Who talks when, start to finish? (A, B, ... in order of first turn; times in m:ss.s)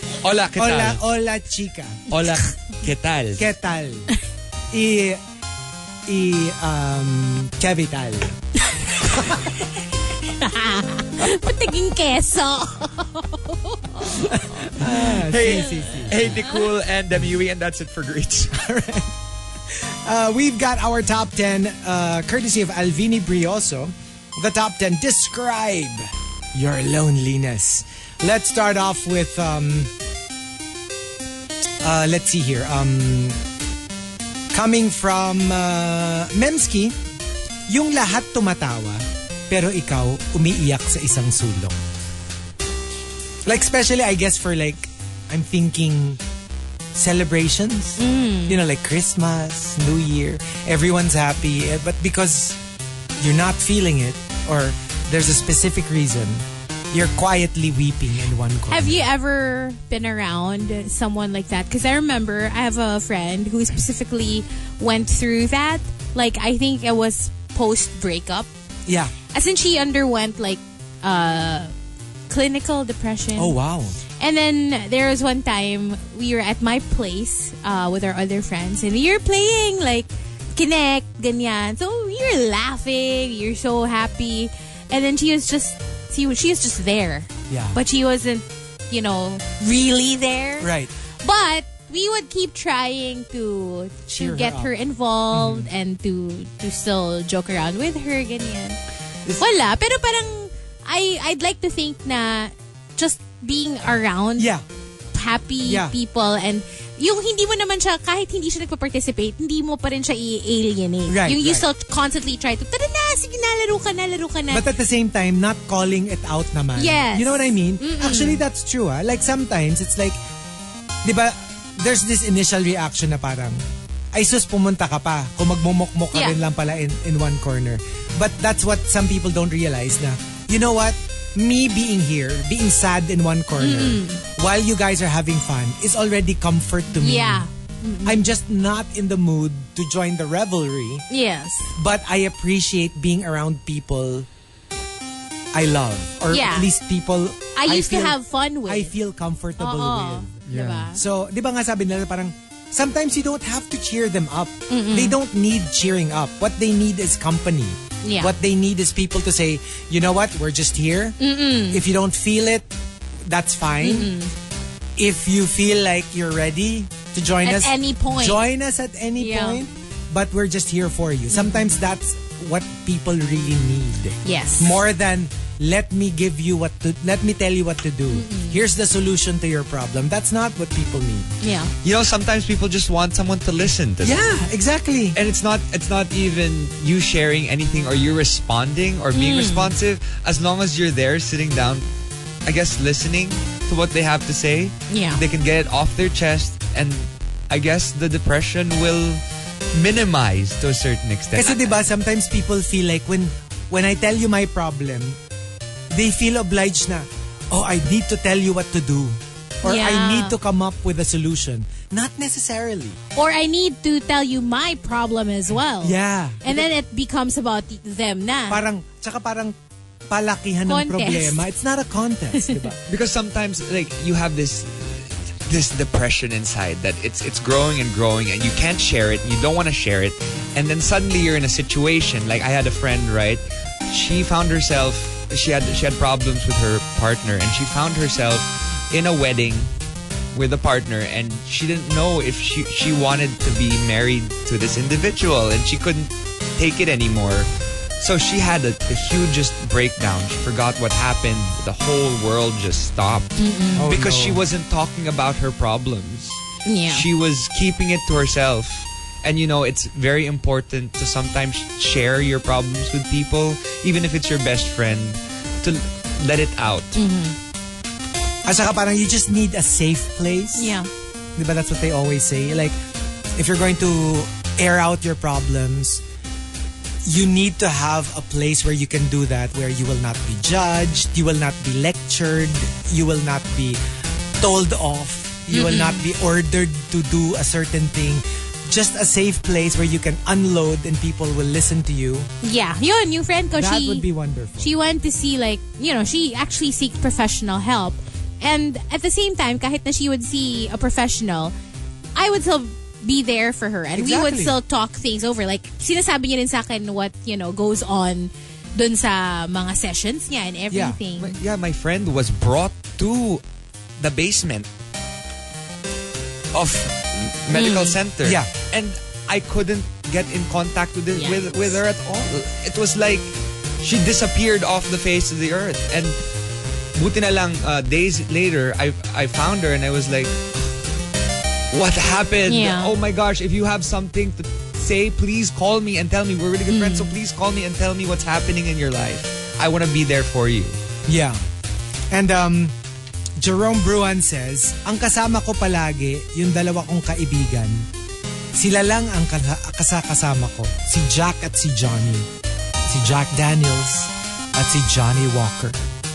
0:00.2-0:01.0 A
0:00.6-0:02.1 B
0:02.1-0:03.5 A
0:03.4-0:04.1 B
0:04.7-0:05.2 B
0:06.1-0:08.4 B
0:09.0-0:09.5 B
0:10.2-0:14.3 C
0:14.1-0:16.4 B
0:15.2-0:18.6 A
0:15.4-0:16.3 C
0:18.5-0:19.2 B
0:19.7-0:29.9 B
0:31.8-0:33.4 B
0:34.5-0:37.0 B
0:37.7-0:41.8 B
0:43.5-0:46.2 B
0:46.9-0:52.6 B
0:48.0-0:48.6 C
0:53.2-0:59.0 B
0:58.7-1:08.5 C
1:08.9-1:09.1 B
1:09.3-1:11.7 C
1:12.3-1:13.6 C
1:13.4-1:14.0 B
1:14.2-1:30.7 C
1:27.5-1:27.8 B
1:30.6-1:30.9 B
1:31.2-1:38.8 C
1:34.1-1:34.7 B
1:35.3-1:35.6 B
1:39.4-1:44.5 C
1:44.4-1:44.7 B
1:45.1-1:54.7 C
1:45.6-1:46.0 B
1:51.1-1:51.7 B
1:54.5-2:00.2 B
1:56.8-1:58.4 C
2:01.0-2:17.5 B
2:13.6-2:14.2 C
2:16.9-2:18.3 C
2:18.0-2:21.1 B
2:21.1-2:21.7 C
2:21.8-2:24.3 B
2:25.5-2:41.2 B
2:26.3-2:26.7 C
2:27.6-2:28.9 C
2:29.6-2:31.0 C
2:34.7-2:35.2 C
2:38.0-2:38.3 C
2:41.2-2:41.8 C
2:41.7-2:42.7 B
2:43.2-2:44.1 B
2:43.8-2:44.3 C
2:45.0-3:01.4 B
2:47.4-2:48.4 C
2:49.2-2:49.6 C
2:51.3-2:51.7 C
2:54.2-2:54.8 C
2:58.1-2:58.6 C
3:01.4-3:01.7 C
3:01.8-3:04.3 A
3:04.0-3:05.2 B
3:05.2-3:11.9 A
3:09.1-3:09.8 C
3:12.4-3:19.2 A
3:14.9-3:15.2 C
3:19.7-3:21.8 A
3:21.3-3:25.2 B
3:25.9-3:33.0 B
3:29.6-3:30.4 C
3:33.2-3:38.6 C
3:35.8-3:36.7 B
3:38.5-3:39.6 B
3:40.1-3:42.8 B
3:40.7-3:41.4 C
3:42.4-3:42.7 C
3:42.9-3:59.7 A
4:00.3-4:07.5 A
4:08.0-4:27.0 A
4:13.4-4:13.9 C
4:13.8-4:14.4 B
4:16.7-4:17.1 C
4:27.0-4:27.4 C
4:28.4-4:30.8 B
4:30.6-4:30.9 C
4:31.4-4:32.8 B
4:33.4-4:36.0 B
4:37.0-4:43.8 B
4:44.4-4:52.3 B
4:45.5-4:46.0 C
4:52.4-4:54.0 C
4:53.5-4:54.7 B
4:54.6-5:01.5 C
5:02.2-5:11.4 C
5:03.9-5:04.6 B
5:10.7-5:11.0 B
5:11.2-5:13.4 A
5:14.0-5:14.7 A
5:16.5-5:26.2 A
5:17.5-5:18.0 C
5:18.2-5:18.5 B
5:21.1-5:21.8 C
5:27.0-5:30.4 A
5:31.7-5:40.8 A
5:32.5-5:32.9 C
5:36.7-5:37.2 C
5:41.1-5:41.4 B
5:42.1-5:42.8 B
5:43.4-5:47.9 B
5:48.6-5:52.3 B
5:52.9-5:55.8 B